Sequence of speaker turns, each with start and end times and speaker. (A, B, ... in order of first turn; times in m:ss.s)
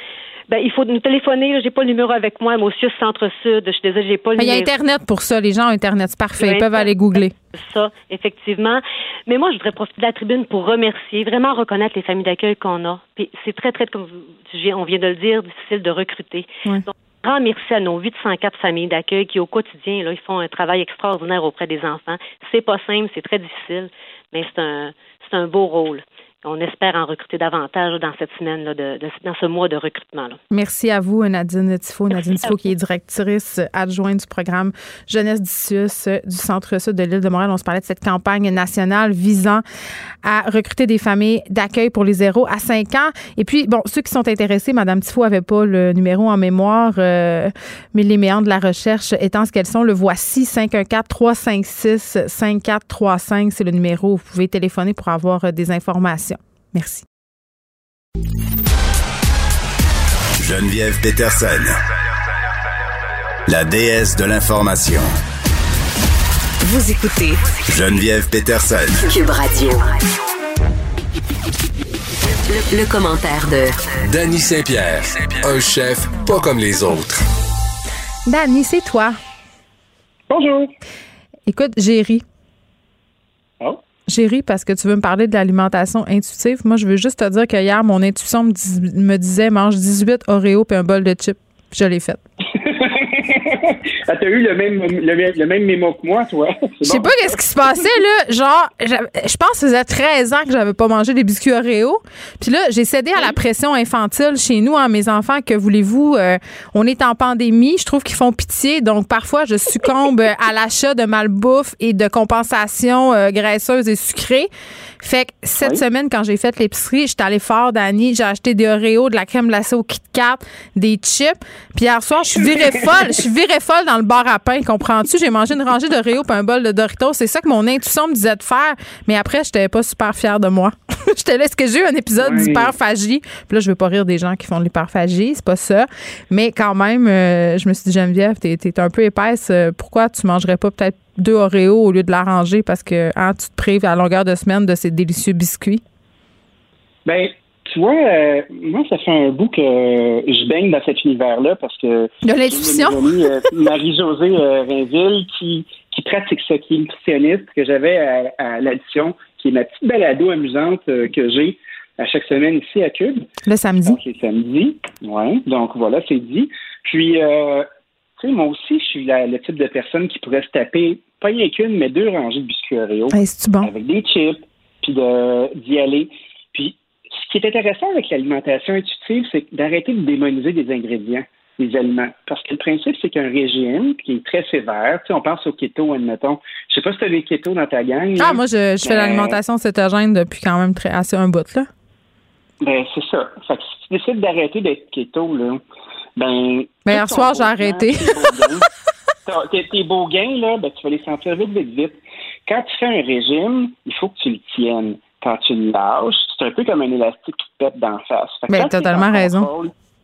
0:00.5-0:04.7 A
0:04.4-0:07.3 B
0:06.4-0:30.4 A
0:30.5-0:39.6 B
0:32.2-0:32.6 A
0:40.2-0:57.0 B
1:00.4-1:01.8 C
1:03.5-1:05.1 C
1:06.6-1:07.4 D
1:07.7-1:09.0 C
1:09.0-1:10.0 D
1:12.5-1:13.8 D
1:14.0-1:17.2 E
1:18.3-1:19.2 B
1:20.3-1:20.7 F
1:21.5-1:22.2 B
1:24.1-1:32.2 B
1:32.6-1:37.4 F
1:36.8-1:54.5 B
1:55.0-2:25.8 B
2:12.2-2:12.7 F
2:27.0-2:43.2 F
2:32.2-2:33.2 B
2:43.4-2:44.0 B
2:43.8-2:47.7 F
2:48.2-3:09.4 F
2:53.1-2:53.7 B
3:08.2-3:11.7 B
3:12.6-3:15.6 F
3:16.2-3:18.7 F
3:16.9-3:18.5 B
3:19.2-3:29.7 F
3:28.5-3:29.5 B